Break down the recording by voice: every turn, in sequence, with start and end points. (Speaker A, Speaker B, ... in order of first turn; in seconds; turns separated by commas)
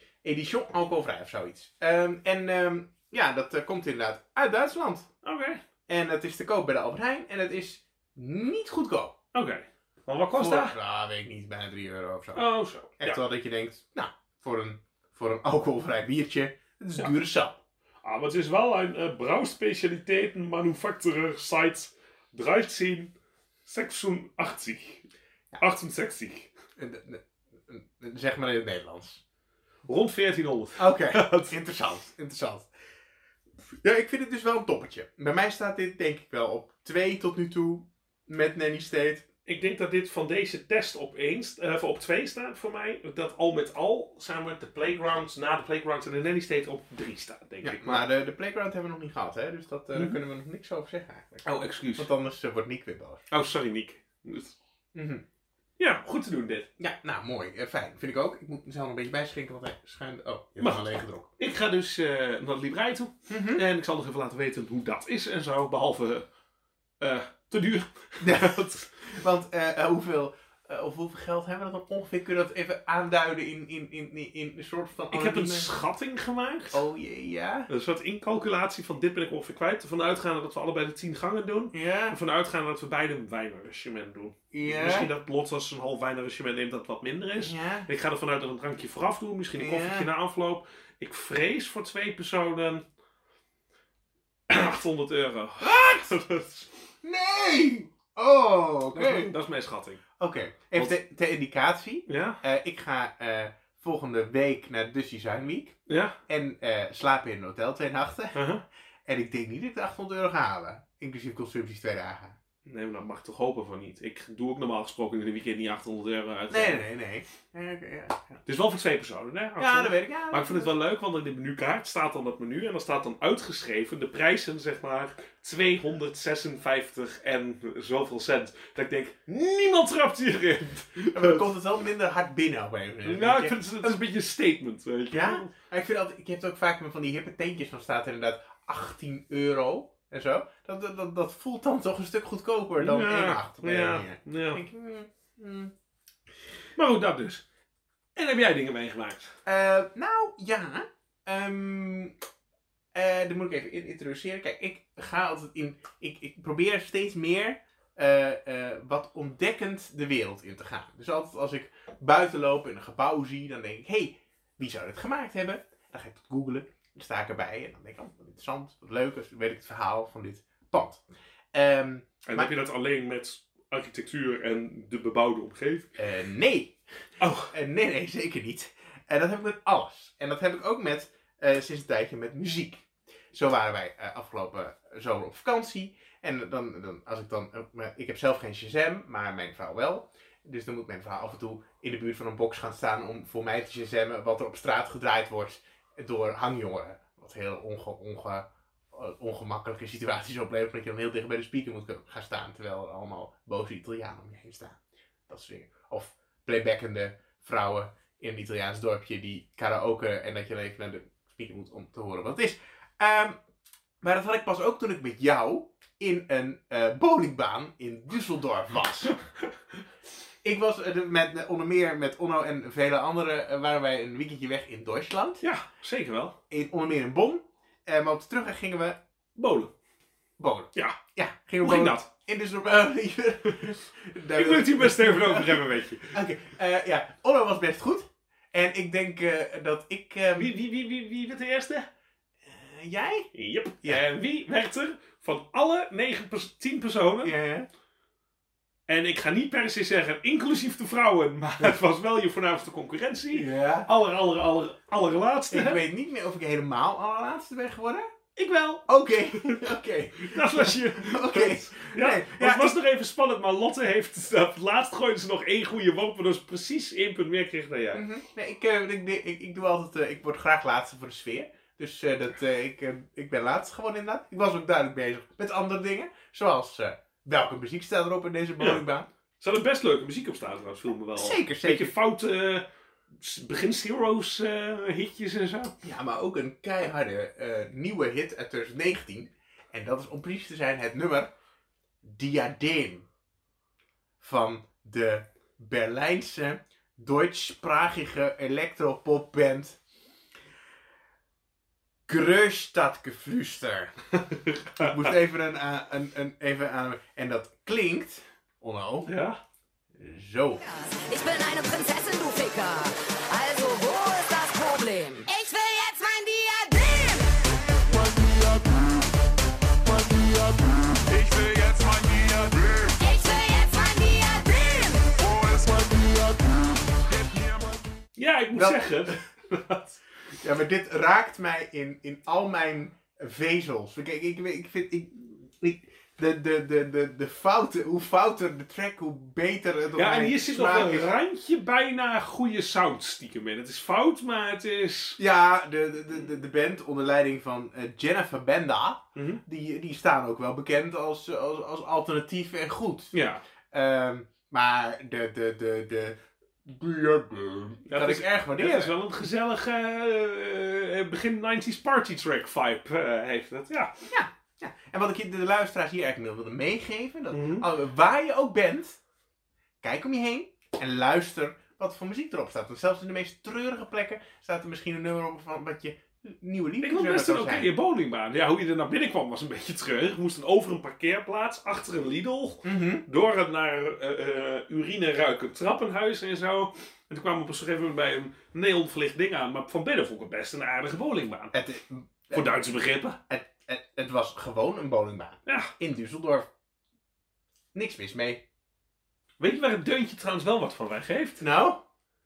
Speaker A: 0.2-5.1, Speaker B: 5.2-5.6, Speaker A: 5.9-9.2, Speaker B: 9.3-10.8, Speaker A: 10.3-17.6, Speaker B: 12.3-13.2, Speaker B: 18.0-23.1, Speaker B: 23.6-25.1, Speaker B: 25.6-26.5, Speaker A: 26.8-29.2, Speaker B: 29.9-31.5, Speaker A: 30.8-32.7, Speaker A: 33.8-39.2, Speaker B: 39.5-48.0, Speaker A: 47.6-51.5, Speaker B: 49.9-50.2, Speaker B: 51.4-52.1, Speaker A: 52.0-53.2, Speaker B: 53.3-54.5, Speaker A: 54.9-55.2, Speaker B: 55.8-56.7, Speaker A: 56.8-61.3, Speaker B: 60.6-66.2, Speaker A: 63.3-63.6, Speaker B: 67.0-68.9, Speaker A: 68.2-75.7, Speaker B: 75.1-76.8, Speaker A: 76.7-77.7, Speaker B: 77.7-92.8, Speaker A: 81.7-82.2, Speaker A: 84.5-85.1, Speaker A: 87.4-87.9, Speaker A: 89.5-90.1, Speaker B: 94.5-96.7, Speaker A: 95.6-96.2, Speaker A: 97.0-99.3, Speaker B: 98.9-100.0, Speaker A: 100.2-105.8, Speaker B: 102.1-102.4, Speaker B: 105.9-106.2, Speaker A: 106.3-108.4, Speaker B: 108.3-108.6, Speaker A: 109.0-112.4, Speaker B: 112.7-116.8, Speaker A: 116.5-118.4, Speaker B: 118.5-131.5, Speaker A: 119.6-120.7, Speaker A: 131.1-134.0, Speaker B: 133.0-135.5, Speaker A: 135.1-145.7, Speaker B: 142.8-144.6, Speaker B: 146.8-147.4, Speaker B: 148.2-149.3, Speaker A: 149.4-152.1, Speaker A: 152.9-172.5, Speaker B: 172.2-175.9, Speaker A: 175.9-176.8, Speaker B: 177.2-177.5, Speaker A: 177.5-213.4, Speaker A: 214.0-219.2, Speaker A: 220.4-225.4, Speaker B: 225.4-226.4, Speaker A: 226.5-229.0, Speaker B: 229.3-229.7, Speaker A: 230.4-240.5, Speaker B: 231.6-232.1, Speaker B: 234.3-236.2, Speaker B: 240.3-241.9, Speaker A: 242.4-243.3, Speaker B: 243.3-247.3, Speaker A: 247.2-247.7, Speaker B: 248.9-255.8, Speaker A: 253.3-253.9, Speaker A: 255.5-258.1, Speaker B: 258.4-268.1, Speaker A: 258.9-262.7, Speaker A: 267.9-279.1, Speaker B: 279.4-282.6, Speaker A: 281.1-281.9, Speaker B: 283.2-285.7, Speaker A: 285.8-291.3, Speaker A: 292.0-293.1, Speaker A: 294.2-299.8, Speaker A: 302.1-303.9, Speaker B: 304.2-305.1, Speaker A: 304.8-309.1, Speaker B: 309.0-309.4, Speaker A: 309.9-310.6, Speaker C: 310.6-317.4, Speaker D: 318.1-318.7, Speaker D: 320.1-320.5, Speaker D: 321.0-322.9, Speaker C: 323.0-325.1, Speaker D: 325.2-327.8, Speaker B: 328.1-330.0, Speaker A: 328.5-329.2, Speaker A: 330.4-341.1, Speaker B: 339.9-345.2, Speaker A: 345.2-353.1, Speaker B: 349.1-349.4, Speaker B: 353.1-353.4, Speaker A: 353.7-358.9, Speaker B: 357.9-364.1, Speaker A: 364.1-369.0, Speaker B: 367.3-367.7, Speaker A: 369.8-377.7, Speaker B: 376.8-391.5, Speaker A: 382.6-383.0, Speaker A: 391.5-392.5, Speaker B: 392.3-393.2, Speaker A: 393.3-396.5, Speaker B: 395.4-395.7, Speaker A: 397.7-398.4, Speaker B: 399.4-401.4, Speaker A: 401.4-401.8